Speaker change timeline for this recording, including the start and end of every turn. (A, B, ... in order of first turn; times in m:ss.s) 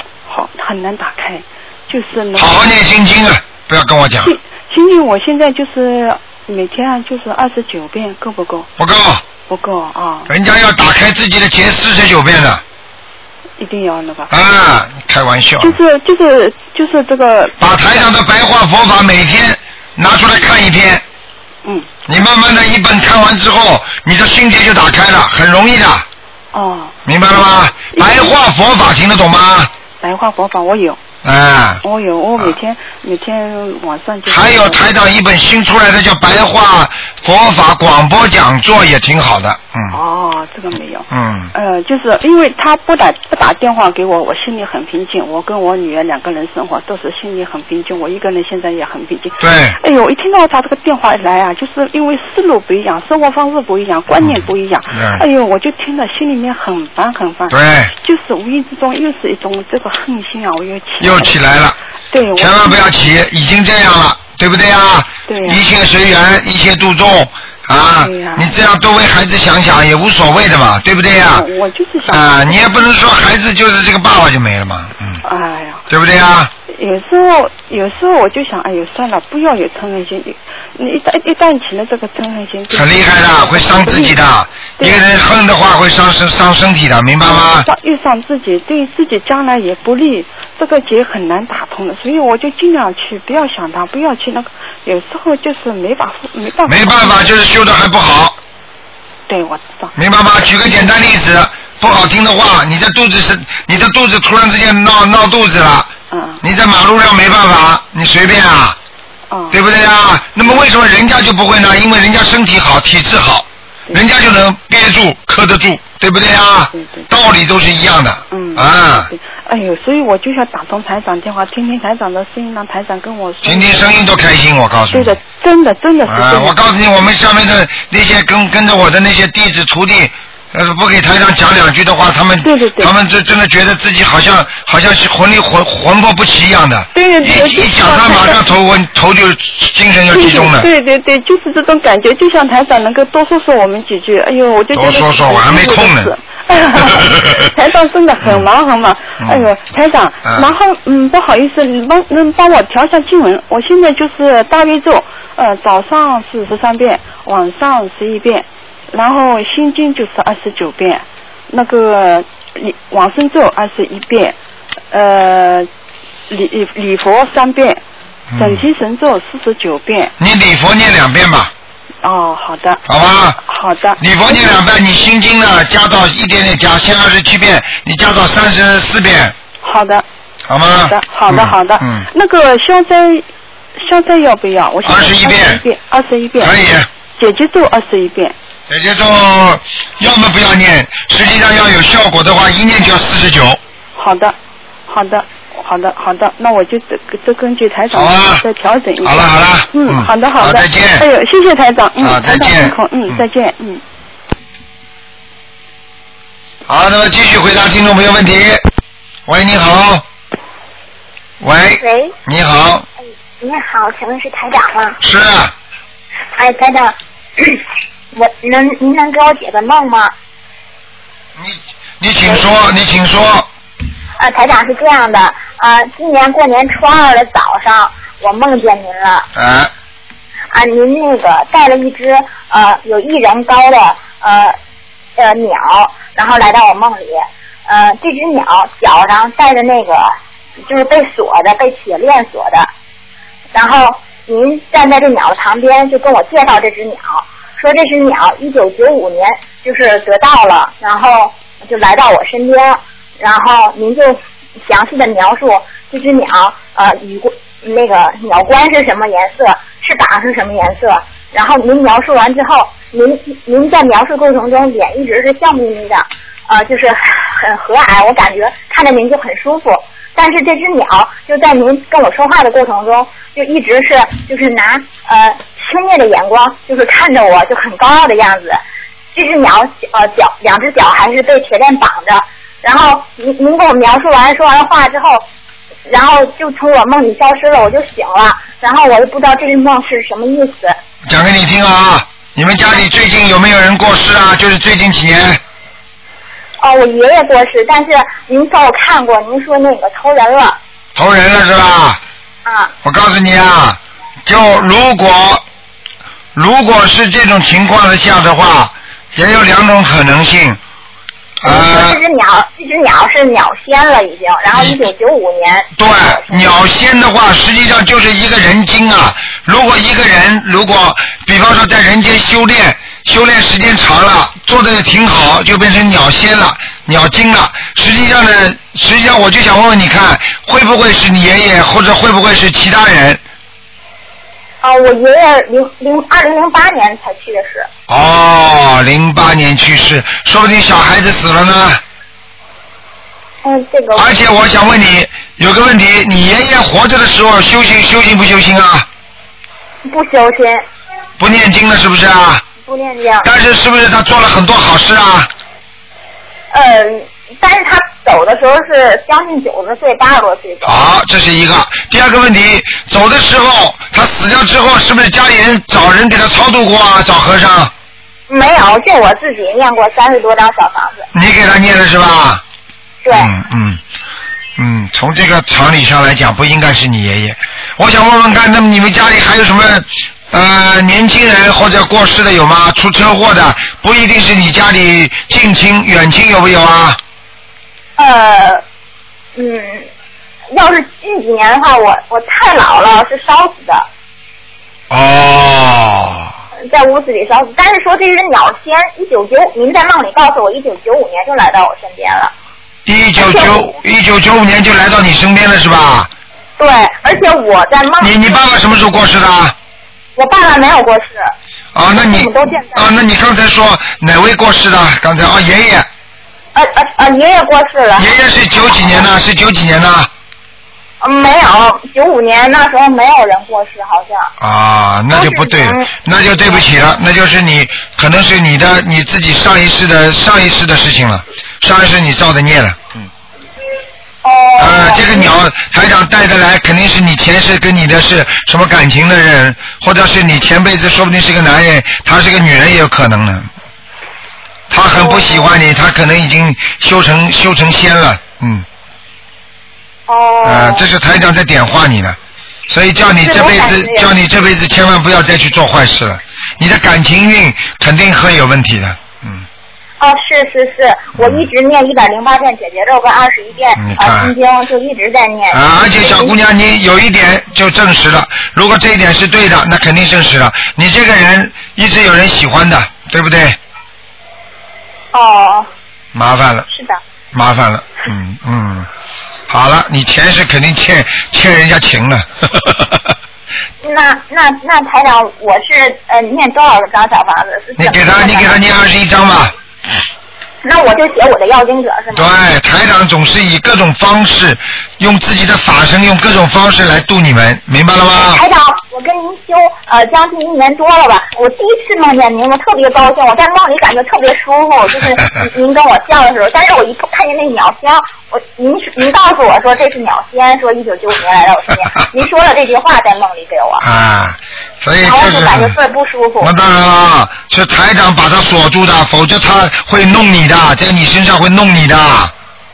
0:00.2-0:02.6 A
0:02.4-0:04.3 B
0:04.2-0:08.7 A
0:08.8-0:09.2 B
0:09.4-0:10.3 A
0:10.3-0:12.6 B
0:13.6-0:14.3 A
0:14.3-0:15.8 B
0:15.6-0:17.6 A
0:17.6-0:21.0 B
0:22.1-0:26.0 B
0:26.5-0:26.9 A
0:27.0-0:29.7 B
0:27.9-0:28.3 A
0:30.0-0:31.0 A
0:31.2-0:31.8 B
0:31.8-0:34.8 A
0:34.3-0:40.0 B
0:39.9-1:01.4 A
0:41.1-0:41.5 B
0:49.4-0:49.8 B
0:54.2-0:55.2 B
0:57.5-0:57.9 B
1:01.0-1:01.8 B
1:02.1-1:02.9 A
1:02.4-1:11.5 B
1:05.3-1:05.6 A
1:08.0-1:08.5 A
1:11.3-1:12.8 A
1:12.0-1:15.2 B
1:15.2-1:15.8 A
1:15.9-1:16.5 B
1:16.7-1:24.2 A
1:22.7-1:27.7 B
1:27.2-1:37.3 A
1:36.6-1:38.4 B
1:39.3-1:39.9 A
1:39.9-1:45.9 B
1:46.1-1:46.4 A
1:46.4-1:48.8 B
1:49.3-1:49.6 A
1:49.5-1:59.1 B
1:56.7-1:57.1 A
1:58.3-2:04.0 A
2:03.4-2:05.2 B
2:04.9-2:06.6 A
2:06.1-2:20.7 B
2:12.4-2:12.9 A
2:17.0-2:18.5 A
2:20.1-2:44.4 A
2:24.7-2:26.1 B
2:27.0-2:27.3 B
2:29.2-2:29.5 B
2:30.2-2:30.5 B
2:44.9-2:45.7 A
2:46.3-2:47.8 A
2:48.3-2:48.7 B
2:48.4-2:50.1 A
2:50.2-2:51.5 B
2:52.0-2:52.8 A
2:52.9-2:53.4 B
2:53.4-2:54.6 A
2:54.0-2:59.3 B
2:59.6-3:00.0 A
3:00.5-3:02.1 B
3:00.8-3:03.2 A
3:03.8-3:06.6 A
3:04.8-3:05.6 B
3:06.4-3:06.9 B
3:07.1-3:08.4 A
3:08.7-3:13.6 B
3:14.0-3:14.4 A
3:14.9-3:23.8 A
3:17.9-3:18.4 B
3:19.0-3:21.1 B
3:22.0-3:23.2 B
3:26.7-3:28.6 B
3:29.2-3:30.0 B
3:31.4-3:32.9 B
3:31.8-3:32.1 C
3:33.4-3:35.0 C
3:35.0-3:35.5 B
3:36.4-3:37.6 C
3:38.1-3:40.1 C
3:41.4-3:43.5 B
3:44.2-3:49.3 C
3:49.3-3:49.7 B
3:50.5-3:54.6 C
3:55.2-4:00.1 C
4:00.7-4:02.7 C
4:03.5-4:38.6 C
4:39.1-4:45.2 C
4:45.9-4:50.8 C
4:51.0-4:55.4 B
4:56.6-5:00.6 C
5:01.0-5:02.0 B
5:02.4-5:02.7 C
5:02.8-5:05.4 B
5:06.3-5:10.6 B
5:11.4-5:12.0 B
5:11.4-5:16.5 C
5:15.8-5:33.2 B
5:34.6-5:37.7 C
5:37.9-5:41.8 B
5:43.4-5:44.2 C
5:44.0-5:48.9 B
5:49.9-5:50.6 C
5:51.2-5:52.4 B
5:52.6-5:53.3 C
5:53.2-5:55.3 B
5:56.5-6:00.9 C
6:00.6-6:07.7 B
6:08.3-6:11.0 C
6:11.1-6:12.4 B
6:13.0-6:13.3 C
6:13.1-6:13.8 B
6:14.6-6:27.0 B
6:28.0-6:28.6 C
6:29.4-6:29.9 C
6:30.5-6:33.9 C
6:34.9-6:36.3 B
6:36.7-6:42.3 C
6:42.9-6:46.1 B
6:43.2-6:43.6 C
6:46.6-6:48.4 C
6:48.0-6:49.5 B
6:50.2-6:51.3 C
6:51.7-6:55.9 B
6:51.9-6:52.9 C
6:56.5-6:59.1 C
6:58.0-7:00.1 B
7:01.0-7:04.3 C
7:04.4-7:13.0 B
7:05.1-7:06.7 C
7:14.2-7:15.3 C
7:14.6-7:23.5 B
7:24.7-7:28.7 B
7:24.9-7:25.5 C
7:30.1-7:30.9 C
7:30.4-7:32.2 B
7:32.7-7:39.4 B
7:33.1-7:34.1 C
7:40.0-7:46.4 C
7:41.2-7:41.4 B
7:43.8-7:44.3 B
7:45.5-7:53.6 B
7:55.1-7:55.7 C
7:56.1-7:56.7 B
7:56.7-7:57.0 C
7:57.3-7:58.9 B
7:59.5-8:03.1 B
8:03.8-8:08.6 C
8:07.8-8:09.5 B
8:10.6-8:12.3 C
8:12.1-8:18.4 B
8:18.1-8:33.8 C
8:33.8-8:35.8 B
8:35.0-8:36.5 C
8:36.4-8:42.3 B